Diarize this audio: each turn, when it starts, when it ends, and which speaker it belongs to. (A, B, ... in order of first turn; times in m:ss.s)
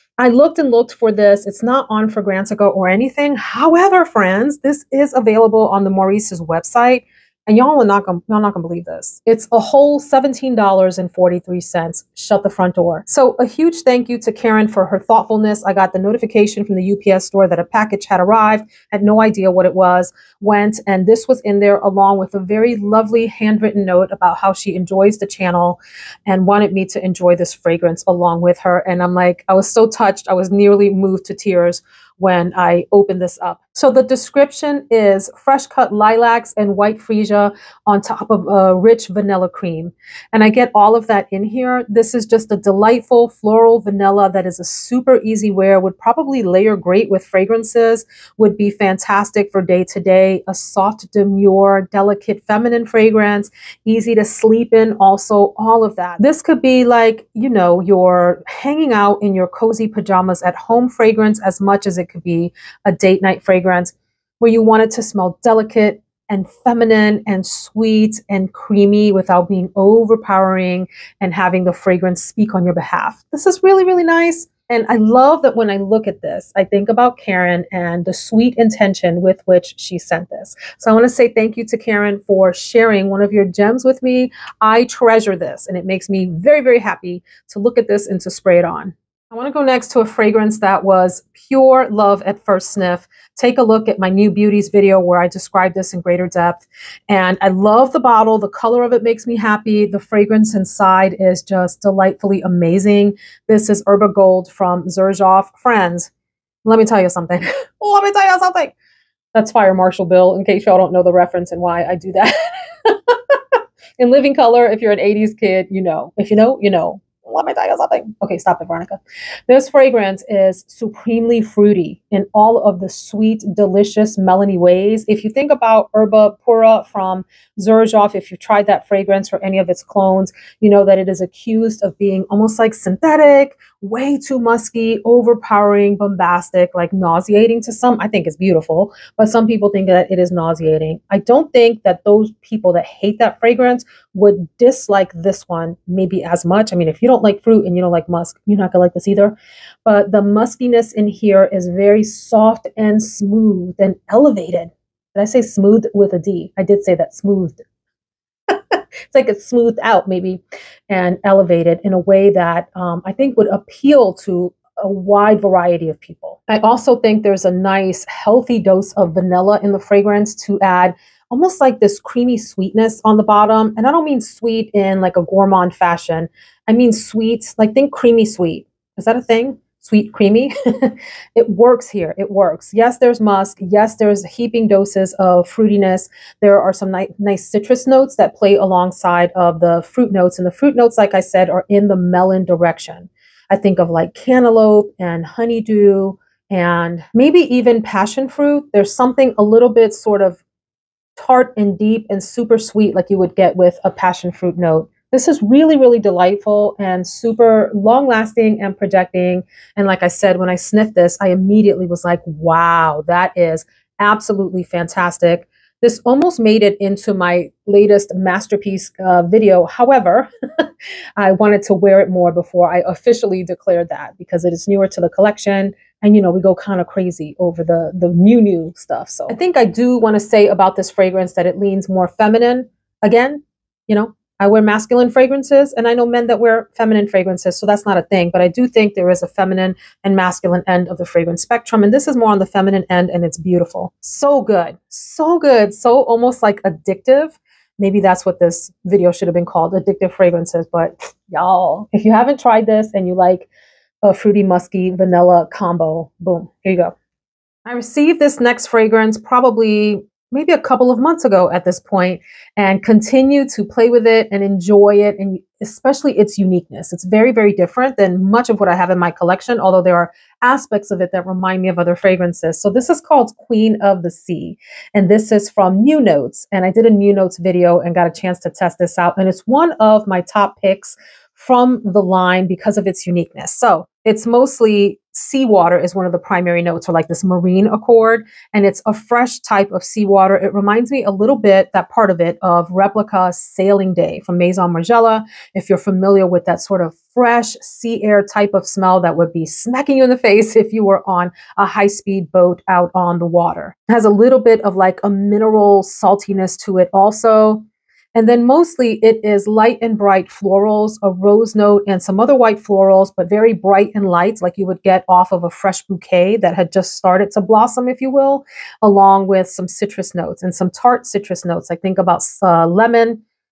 0:00.2-1:46.1 A
1:46.6-1:48.7 A
1:49.4-1:52.3 A
1:52.8-1:53.4 A
1:54.0-2:37.6 A
2:38.5-3:20.4 A
3:21.2-3:40.7 A
3:41.2-4:13.5 A
4:14.0-4:16.9 A
4:17.7-5:07.6 A
5:08.2-5:23.2 A